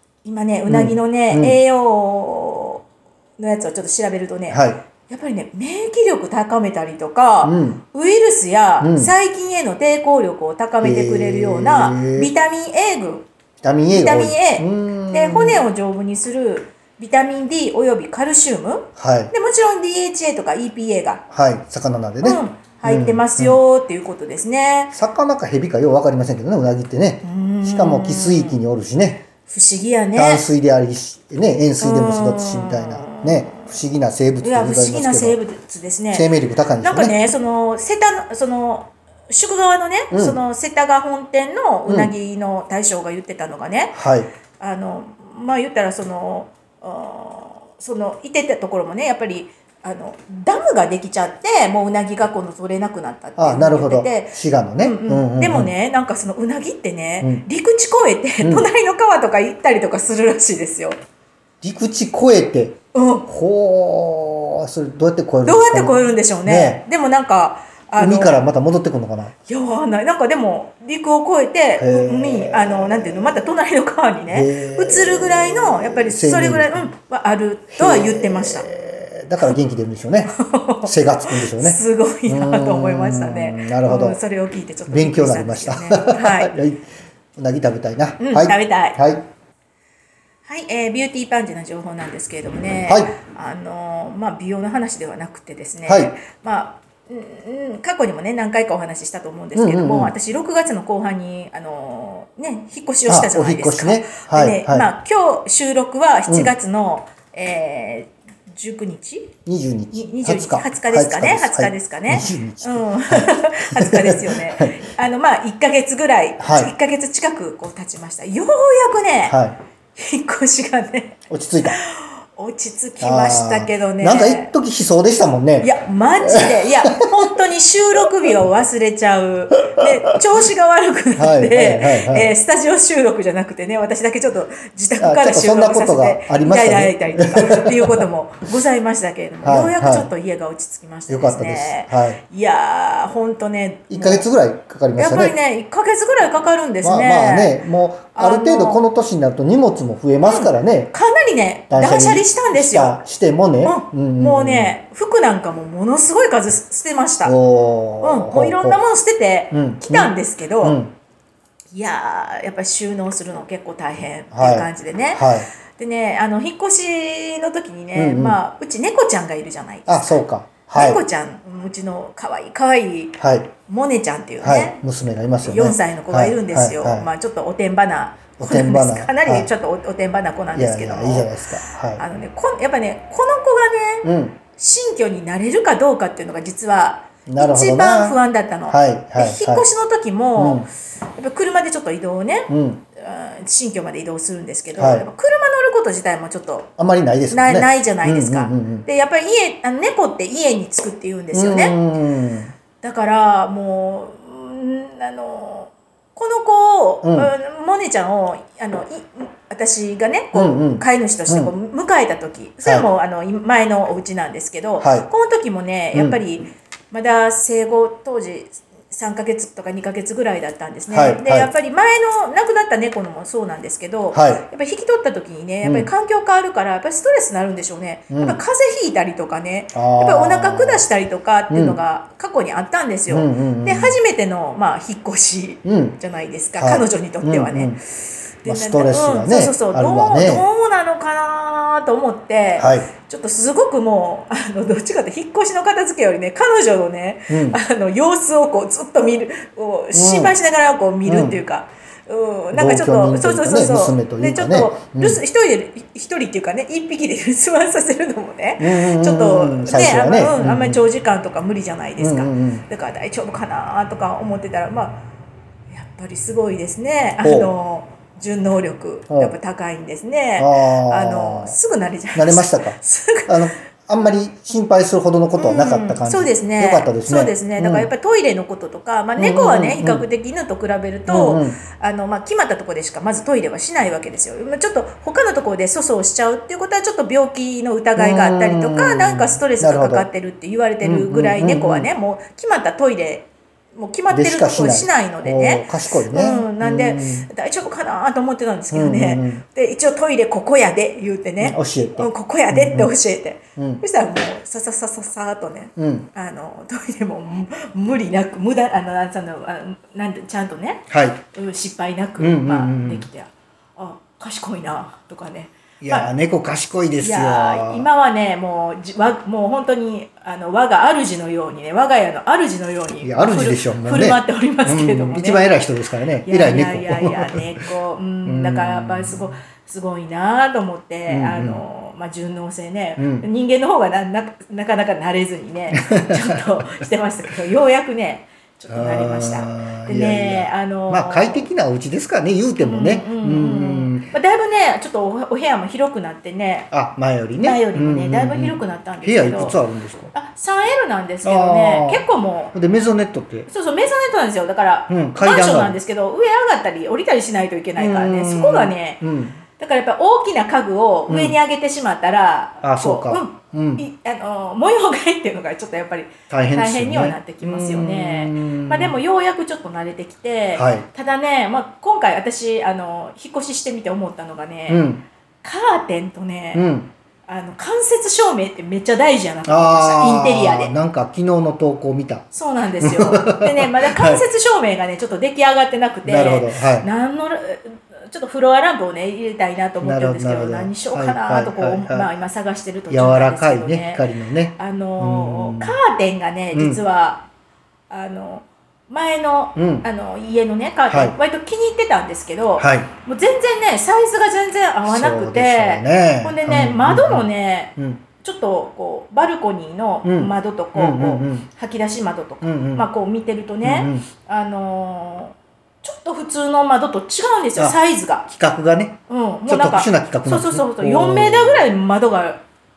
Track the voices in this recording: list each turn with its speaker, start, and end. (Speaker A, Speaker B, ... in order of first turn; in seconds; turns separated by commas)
Speaker A: 0.2-2.8, Speaker B: 0.7-1.6, Speaker A: 3.4-13.3, Speaker B: 4.5-4.8, Speaker B: 7.4-7.8, Speaker B: 8.8-9.1, Speaker B: 10.8-12.3, Speaker B: 13.6-15.6, Speaker A: 13.9-21.2, Speaker B: 18.9-19.3, Speaker B: 21.3-23.6, Speaker A: 22.2-24.9, Speaker B: 24.9-29.3, Speaker A: 27.2-28.6, Speaker A: 29.5-30.4, Speaker B: 30.1-35.4, Speaker A: 31.8-33.7, Speaker A: 34.4-36.3, Speaker B: 36.1-37.2, Speaker A: 36.8-44.0, Speaker B: 40.1-40.4, Speaker B: 41.9-42.1, Speaker B: 43.9-44.3, Speaker A: 44.6-61.0, Speaker B: 53.4-55.7, Speaker B: 57.2-57.5, Speaker B: 58.4-58.7, Speaker B: 61.6-66.8, Speaker A: 62.9-63.3, Speaker A: 65.4-68.5, Speaker B: 68.0-69.3, Speaker A: 69.5-78.7, Speaker B: 71.8-73.4, Speaker B: 74.3-76.9, Speaker B: 77.7-84.2, Speaker A: 80.3-86.5, Speaker B: 84.9-89.3, Speaker A: 88.2-89.0, Speaker A: 90.4-109.4, Speaker B: 92.8-93.1, Speaker B: 95.8-96.1, Speaker B: 99.5-100.1, Speaker B: 103.1-104.9, Speaker B: 109.5-114.8, Speaker A: 109.9-119.4, Speaker B: 116.4-116.7, Speaker B: 119.2-119.6, Speaker A: 120.0-124.5, Speaker B: 121.3-121.8, Speaker B: 123.0-127.1, Speaker A: 125.6-144.2, Speaker B: 131.2-132.3, Speaker B: 135.0-138.0, Speaker B: 139.4-140.1, Speaker B: 141.1-142.2, Speaker B: 143.9-145.3, Speaker A: 144.9-147.6, Speaker B: 146.8-150.9, Speaker A: 148.1-148.8, Speaker A: 150.2-153.0, Speaker B: 151.7-154.7, Speaker A: 153.6-157.3, Speaker B: 157.2-158.8, Speaker A: 158.0-160.8, Speaker B: 159.5-160.9, Speaker A: 161.7-170.2, Speaker B: 164.3-165.5, Speaker B: 167.9-168.4, Speaker B: 169.9-171.0, Speaker A: 170.7-174.8, Speaker B: 173.2-173.5, Speaker B: 174.4-177.1, Speaker A: 175.4-196.7, Speaker B: 178.4-179.5, Speaker B: 180.5-182.0, Speaker B: 184.0-184.4, Speaker B: 187.2-189.7, Speaker B: 190.3-190.7, Speaker B: 192.5-192.8, Speaker B: 194.8-195.1, Speaker B: 196.8-198.9, Speaker A: 197.3-201.8, Speaker B: 201.3-202.5, Speaker A: 202.8-237.8, Speaker B: 207.0-207.3, Speaker B: 210.3-211.5, Speaker B: 214.8-215.1, Speaker B: 215.9-216.2, Speaker B: 220.9-221.5, Speaker B: 224.1-224.4, Speaker B: 225.6-225.9, Speaker B: 228.1-228.4, Speaker B: 229.7-230.8, Speaker B: 231.5-231.8, Speaker B: 233.1-234.0, Speaker B: 235.6-236.0, Speaker B: 236.6-237.8, Speaker A: 238.4-265.0, Speaker B: 238.4-240.4, Speaker B: 242.6-242.9, Speaker B: 247.3-247.6, Speaker B: 249.9-250.3, Speaker B: 251.1-251.4, Speaker B: 252.5-255.2, Speaker B: 258.6-260.8, Speaker B: 262.0-262.7, Speaker A: 265.7-273.6, Speaker B: 267.2-267.5, Speaker B: 269.1-269.3, Speaker B: 270.4-271.6, Speaker B: 272.1-277.9, Speaker A: 275.4-316.1, Speaker B: 279.2-280.1, Speaker B: 281.1-281.6, Speaker B: 288.0-290.1, Speaker B: 290.8-291.9, Speaker B: 294.1-297.3, Speaker B: 298.7-299.4, Speaker B: 301.4-302.9, Speaker B: 303.6-303.8, Speaker B: 305.8-306.1, Speaker B: 310.9-311.2, Speaker B: 312.2-313.1, Speaker B: 315.8-317.9, Speaker A: 317.0-325.5, Speaker B: 323.0-327.4, Speaker A: 326.2-341.5, Speaker B: 328.2-329.3, Speaker B: 331.1-331.6, Speaker B: 333.0-333.3, Speaker B: 335.7-336.6, Speaker B: 338.7-344.1, Speaker A: 342.6-346.7, Speaker B: 346.7-350.1, Speaker A: 347.4-349.6, Speaker A: 350.1-352.6, Speaker B: 351.2-353.5, Speaker A: 353.5-359.0, Speaker B: 354.9-355.8, Speaker B: 357.8-359.4, Speaker A: 359.6-374.8, Speaker B: 361.1-361.4, Speaker B: 362.6-363.8, Speaker B: 366.3-369.0, Speaker B: 370.5-370.9, Speaker B: 374.7-375.1, Speaker A: 375.4-376.7, Speaker B: 376.5-376.9, Speaker A: 377.3-380.7, Speaker B: 379.5-382.2, Speaker A: 382.3-394.1, Speaker B: 382.8-384.2, Speaker B: 386.1-386.9, Speaker B: 389.8-392.1, Speaker B: 392.9-395.8, Speaker A: 394.6-397.2, Speaker B: 396.5-396.8, Speaker A: 397.9-418.2, Speaker B: 399.6-399.9, Speaker B: 400.9-401.2, Speaker B: 402.6-402.9, Speaker B: 404.8-408.0, Speaker B: 410.0-411.5, Speaker B: 412.4-412.9, Speaker B: 413.6-414.1, Speaker B: 417.6-421.7, Speaker A: 419.1-422.4